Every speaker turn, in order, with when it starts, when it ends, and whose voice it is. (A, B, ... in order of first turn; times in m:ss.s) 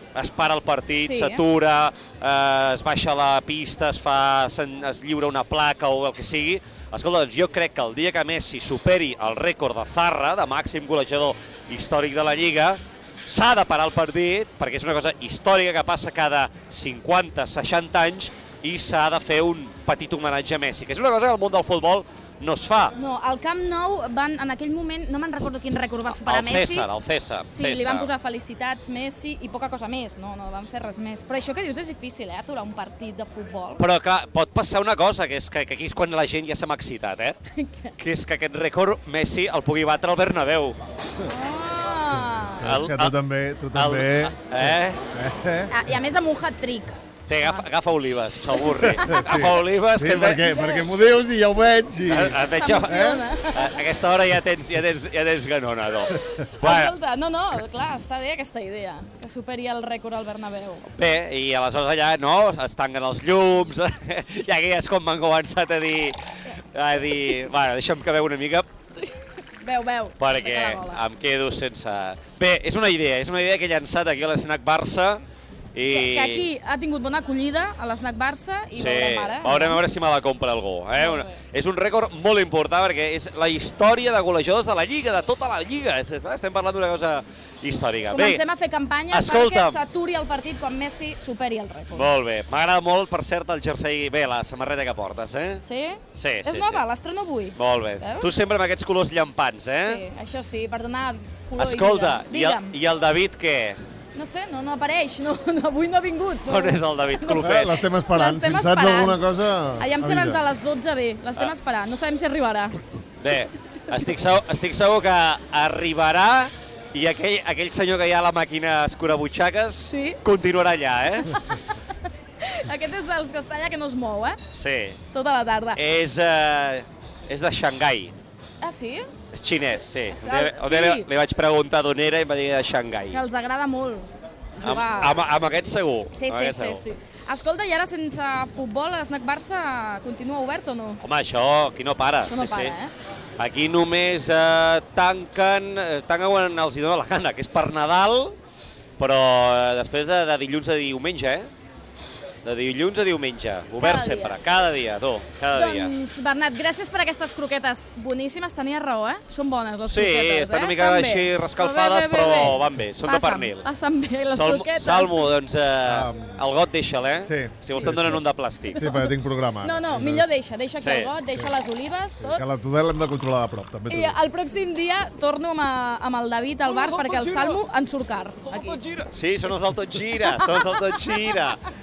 0:00.1-0:22.9 A
0:01.0-0:01.4 B
0:22.9-0:26.9 B
0:26.1-0:28.1 A
0:27.5-0:33.8 B
0:33.8-0:37.4 A
0:37.5-0:37.9 B
0:38.0-0:40.8 A
0:41.2-0:42.7 B
0:42.6-0:43.2 A
0:42.6-0:45.7 C
0:43.7-0:45.0 A
0:45.7-0:47.6 B
0:47.3-0:50.5 A
0:48.9-0:49.3 B
0:49.1-0:53.2 C
0:50.4-0:50.9 B
0:52.0-0:56.9 A
0:52.4-0:53.8 B
0:56.6-1:00.8 B
1:00.9-1:06.2 A
1:06.7-1:08.7 A
1:09.0-1:11.0 B
1:10.2-1:15.2 A
1:15.7-1:16.5 A
1:15.9-1:19.8 B
1:18.7-1:28.4 A
1:20.9-1:21.3 B
1:28.1-1:32.1 B
1:29.1-1:29.8 A
1:31.9-1:36.8 A
1:35.6-1:38.3 B
1:37.6-1:40.0 A
1:39.8-1:42.8 B
1:41.6-1:43.8 A
1:44.1-1:49.2 B
1:46.4-1:47.9 A
1:47.4-1:50.4 C
1:49.8-1:52.8 B
1:53.2-2:01.4 A
1:59.9-2:00.2 B
2:01.2-2:04.4 B
2:04.5-2:05.0 A
2:05.1-2:05.8 B
2:05.7-2:08.1 A
2:08.6-2:09.1 B
2:09.3-2:13.2 A
2:10.1-2:11.1 B
2:13.1-2:15.2 B
2:14.6-2:16.8 A
2:16.1-2:21.0 B
2:21.0-2:22.8 A
2:22.2-2:22.9 B
2:23.4-2:28.3 A
2:29.0-2:31.5 A
2:32.4-2:35.9 A
2:33.8-2:34.4 B
2:35.5-2:45.3 B
2:39.9-2:43.7 A
2:44.3-2:48.9 A
2:45.8-2:46.4 C
2:47.2-2:48.2 C
2:47.7-2:48.1 B
2:48.7-2:52.4 B
2:48.8-2:50.3 C
2:50.8-2:51.1 A
2:52.2-2:54.2 C
2:53.9-2:58.8 B
2:56.6-2:57.6 A
2:58.4-3:01.6 A
3:00.1-3:01.5 B